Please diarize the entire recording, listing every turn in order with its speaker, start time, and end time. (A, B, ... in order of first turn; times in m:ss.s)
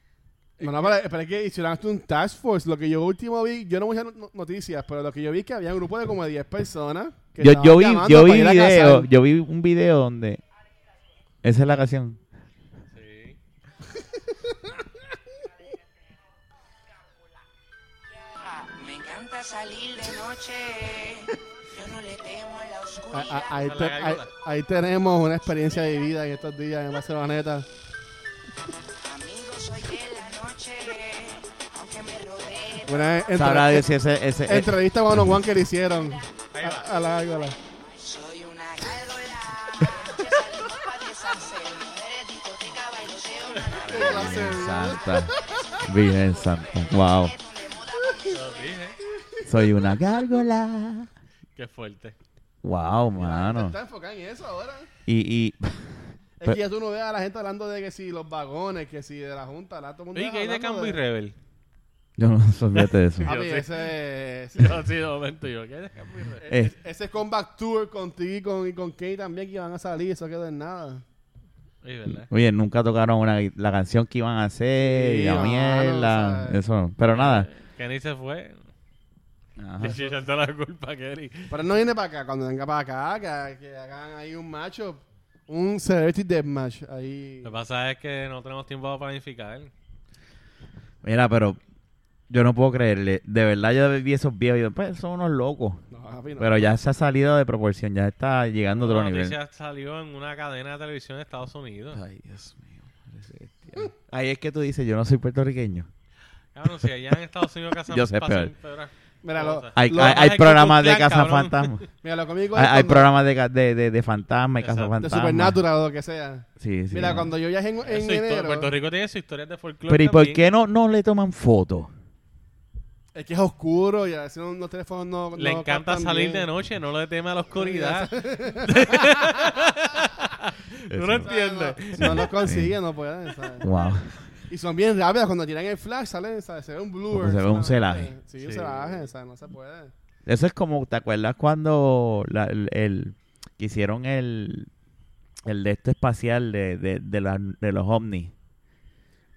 0:00.6-0:00.9 A
0:00.6-0:09.1 B
0:07.4-0:10.4 C
0:11.4-0:12.2 C
0:12.9-0:13.4 A
0:18.5-0:23.8 D
0:23.1-0:27.7 B
0:23.6-0:24.3 A
0:29.0-0:33.3 D
0:32.9-0:33.9 B
0:33.4-0:35.4 C
0:34.5-0:37.6 B
0:36.5-0:36.9 A
0:37.9-0:48.9 D
0:43.7-0:44.2 A
0:43.8-0:45.4 B
0:43.9-0:45.3 C
0:45.8-0:47.3 C
0:48.3-0:49.0 A
0:49.5-0:51.1 C
0:51.6-0:52.2 A
0:52.6-0:53.8 C
0:53.2-0:54.9 B
0:55.1-0:56.6 C
0:56.4-1:01.0 B
1:00.1-1:01.4 A
1:02.2-1:03.3 C
1:02.8-1:03.9 A
1:03.2-1:04.8 B
1:04.6-1:06.4 A
1:06.4-1:11.0 B
1:06.5-1:06.8 C
1:11.8-1:12.3 A
1:12.1-1:17.5 C
1:14.8-1:16.6 B
1:17.1-1:18.6 A
1:19.6-1:20.1 C
1:19.8-1:21.5 A
1:21.5-1:27.5 B
1:27.4-1:29.7 A
1:31.0-1:31.6 C
1:32.3-1:35.8 C
1:35.9-1:36.7 B
1:36.4-1:39.4 C
1:38.7-1:42.0 A
1:41.9-1:45.9 C
1:46.6-1:51.8 A
1:47.9-1:48.5 C
1:49.2-1:50.3 B
1:49.8-1:51.8 C
1:52.0-1:53.1 B
1:52.5-1:55.6 C
1:54.6-1:55.0 A
1:55.0-1:58.7 B
1:56.6-1:57.3 C
1:57.8-2:00.5 A
1:59.9-2:01.9 C
2:03.1-2:06.5 B
2:05.4-2:08.1 A
2:07.6-2:09.5 B
2:08.6-2:12.3 A
2:10.9-2:11.3 C
2:11.2-2:13.7 B
2:12.0-2:12.8 C
2:13.6-2:14.2 C
2:14.5-2:19.9 B
2:17.1-2:18.1 C
2:18.4-2:19.0 A
2:20.3-2:24.7 C
2:25.4-2:28.3 C